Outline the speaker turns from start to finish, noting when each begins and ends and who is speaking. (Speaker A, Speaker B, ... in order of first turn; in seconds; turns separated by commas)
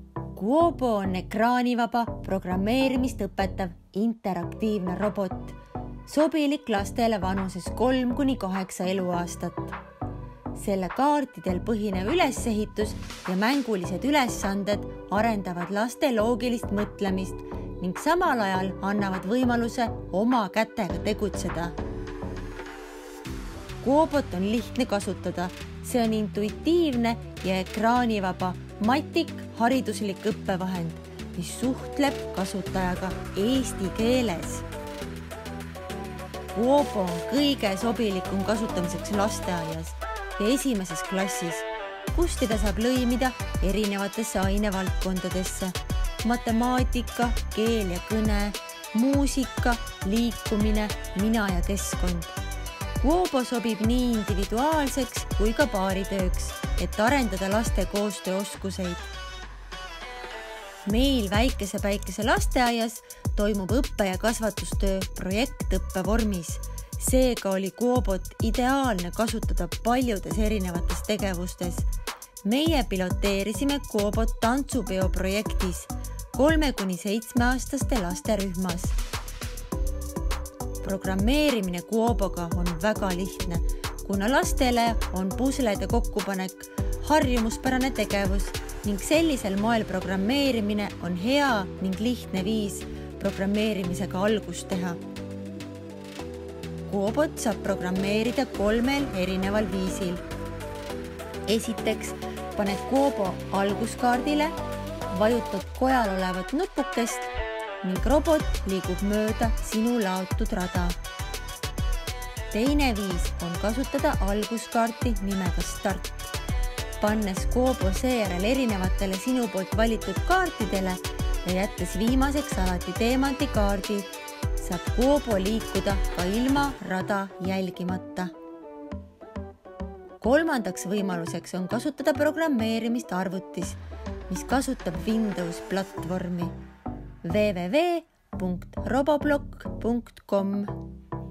Speaker A: 0.3-9.8, Speaker A: 10.5-21.8, Speaker A: 23.8-34.7, Speaker A: 36.5-52.4, Speaker A: 53.0-59.1, Speaker A: 60.9-71.9, Speaker A: 72.4-79.0, Speaker A: 80.8-95.0, Speaker A: 96.9-100.2, Speaker A: 101.5-111.0, Speaker A: 112.5-116.3, Speaker A: 117.0-128.3, Speaker A: 130.2-136.6, Speaker A: 137.2-140.8